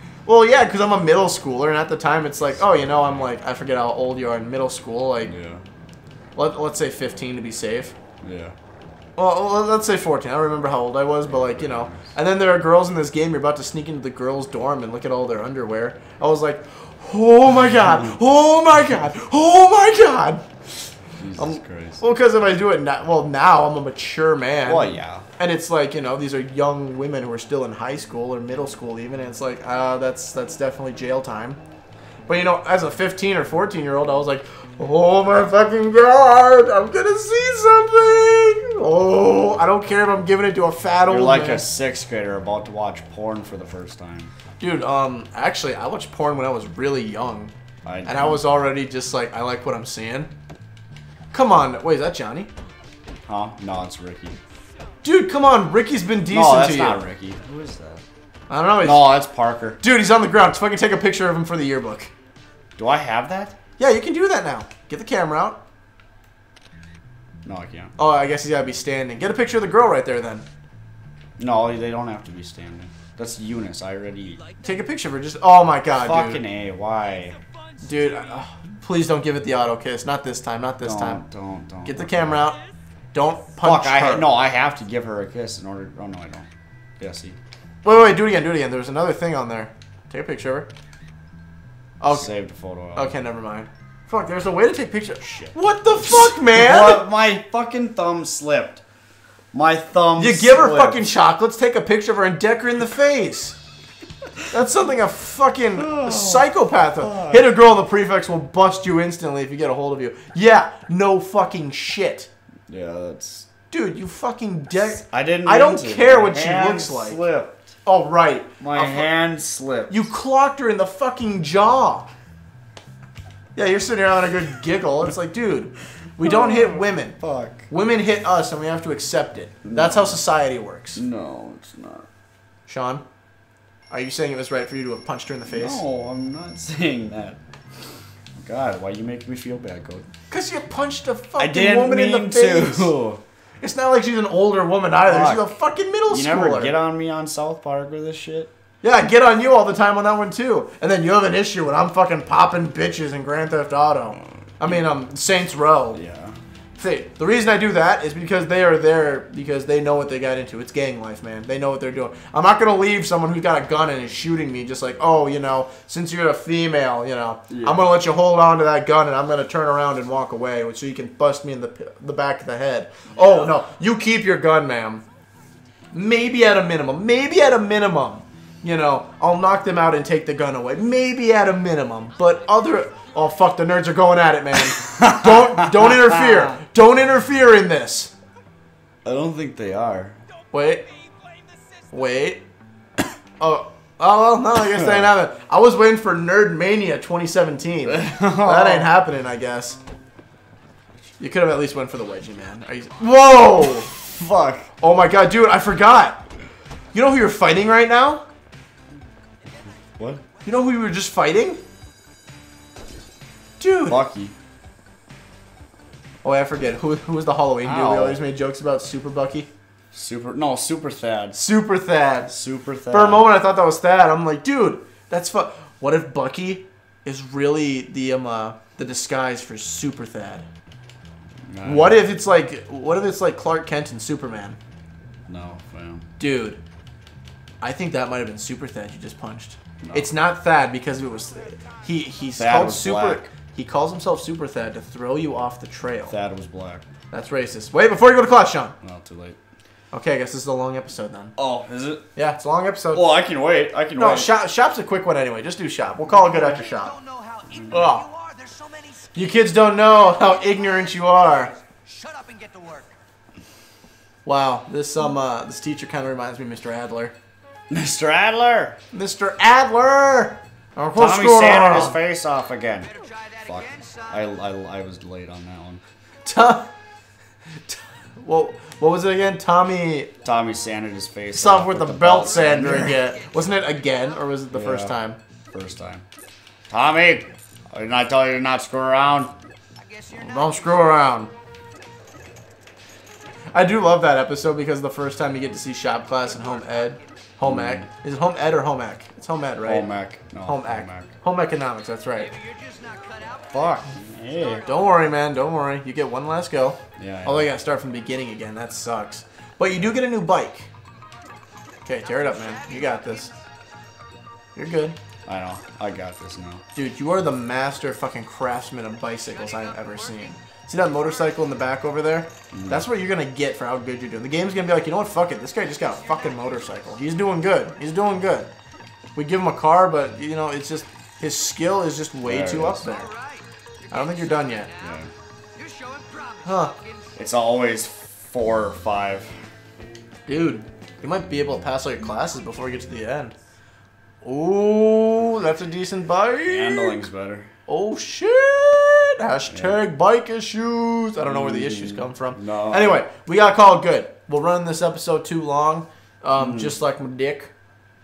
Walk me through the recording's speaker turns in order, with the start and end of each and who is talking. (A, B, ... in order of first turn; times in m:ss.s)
0:00.3-0:05.3 A
0:05.2-0:05.6 B
0:06.4-0:08.0 A
0:08.2-0:08.6 B
0:09.2-0:31.6 A
0:11.2-0:12.1 B
0:21.2-0:22.0 B
0:24.7-0:25.2 B
0:32.3-0:41.6 A
0:41.1-0:44.3 B
0:44.6-0:47.5 A
0:47.8-0:48.4 B
0:48.1-0:50.3 A
0:51.3-0:52.5 A
0:53.3-0:54.4 B
0:55.0-0:57.0 A
0:56.3-0:58.0 B
0:58.5-0:59.1 A
0:58.8-0:59.8 B
0:59.8-1:02.1 A
1:02.8-1:03.6 B
1:03.8-1:05.6 A
1:07.4-1:07.9 B
1:08.0-1:10.4 A
1:11.4-1:14.4 B
1:14.6-1:16.4 A
1:16.0-1:17.4 B
1:17.8-1:21.2 A
1:20.8-1:22.4 B
1:21.8-1:22.6 A
1:23.1-1:24.3 A
1:23.6-1:26.5 B
1:27.0-1:27.4 B
1:27.8-1:30.7 A
1:32.0-1:32.3 A
1:32.1-1:33.2 B
1:33.0-1:37.1 A
1:35.2-1:35.5 B
1:36.1-1:38.8 B
1:39.5-1:41.1 B
1:40.2-1:43.6 A
1:44.5-1:52.3 A
1:45.8-1:46.5 B
1:47.0-1:47.5 B
1:52.7-1:53.5 B
1:53.7-1:57.2 A
1:55.1-1:57.7 B
1:57.8-1:59.1 A
1:58.6-2:00.1 B
1:59.9-2:02.1 A
2:03.6-2:07.2 A
2:06.2-2:07.7 B
2:07.7-2:11.0 A
2:09.7-2:10.2 B
2:11.0-2:12.1 B
2:12.7-2:13.0 A
2:13.9-2:15.8 A
2:15.5-2:17.4 B
2:18.4-2:20.1 B
2:20.3-2:22.9 A
2:21.4-2:23.2 B
2:23.6-2:26.7 A
2:25.0-2:25.5 B
2:26.1-2:28.5 B
2:28.8-2:36.0 A
2:35.9-2:36.4 B
2:36.8-2:55.0 A
2:47.5-2:47.9 B
2:55.9-3:08.1 A
3:04.8-3:06.4 B
3:09.0-3:10.2 B
3:10.5-3:10.9 A
3:11.9-3:12.4 A
3:13.4-3:19.8 A
3:14.8-3:15.1 B
3:17.9-3:18.9 B
3:21.2-3:23.9 A
3:23.9-3:24.7 B
3:24.8-3:26.2 A
3:26.9-3:28.2 A
3:30.0-3:30.2 B
3:30.4-3:31.6 A
3:33.6-3:34.0 A
3:33.9-3:34.3 B
3:36.2-3:39.5 A
3:37.6-3:38.2 B
3:39.9-3:41.4 B
3:41.3-3:42.3 A
3:42.3-3:43.3 B
3:42.9-3:50.5 A
3:51.5-3:52.0 B
3:51.6-3:54.6 A
3:55.3-3:56.1 B
3:56.2-3:56.6 A
3:57.6-4:06.2 A
3:59.8-4:00.1 B
4:02.4-4:03.3 B
4:06.1-4:06.8 B
4:07.1-4:08.8 A
4:08.8-4:09.4 B
4:09.9-4:11.4 A
4:11.4-4:12.1 B
4:12.2-4:13.1 A
4:12.9-4:14.4 B
4:14.0-4:17.0 A
4:16.2-4:19.2 C
4:17.7-4:18.1 A
4:19.2-4:21.5 A
4:20.3-4:22.9 C
4:24.2-4:27.2 A
4:27.7-4:28.8 B
4:28.9-4:32.0 A
4:31.0-4:35.8 B
4:32.9-4:34.1 C
4:36.2-4:36.7 A
4:37.7-4:40.1 A
4:40.2-4:43.0 B
4:41.3-4:45.2 A
4:44.5-4:45.0 B
4:45.5-4:46.0 B
4:46.7-4:49.3 B
4:50.0-4:50.8 C
4:50.1-4:51.3 A
4:53.5-4:59.9 A
4:57.4-4:57.9 B
4:59.6-5:01.1 B
5:00.4-5:02.4 A
5:02.3-5:03.5 C
5:03.5-5:04.7 B
5:04.7-5:10.7 A
5:07.0-5:07.5 B
5:11.8-5:13.3 A
5:14.6-5:15.0 A
5:15.3-5:16.6 B
5:16.8-5:28.5 A
5:22.5-5:22.9 B
5:29.2-5:33.1 A
5:32.2-5:32.8 B
5:32.9-5:33.4 C
5:33.9-5:34.7 A
5:34.0-5:34.4 C
5:34.8-5:35.1 B
5:35.6-5:36.9 C
5:36.4-5:36.7 A
5:37.2-5:39.3 B
5:40.3-5:43.3 A
5:44.2-5:47.0 A
5:46.4-5:47.5 B
5:47.7-5:57.5 A
5:49.5-5:49.8 B
5:51.2-5:53.0 B
5:56.4-5:56.8 B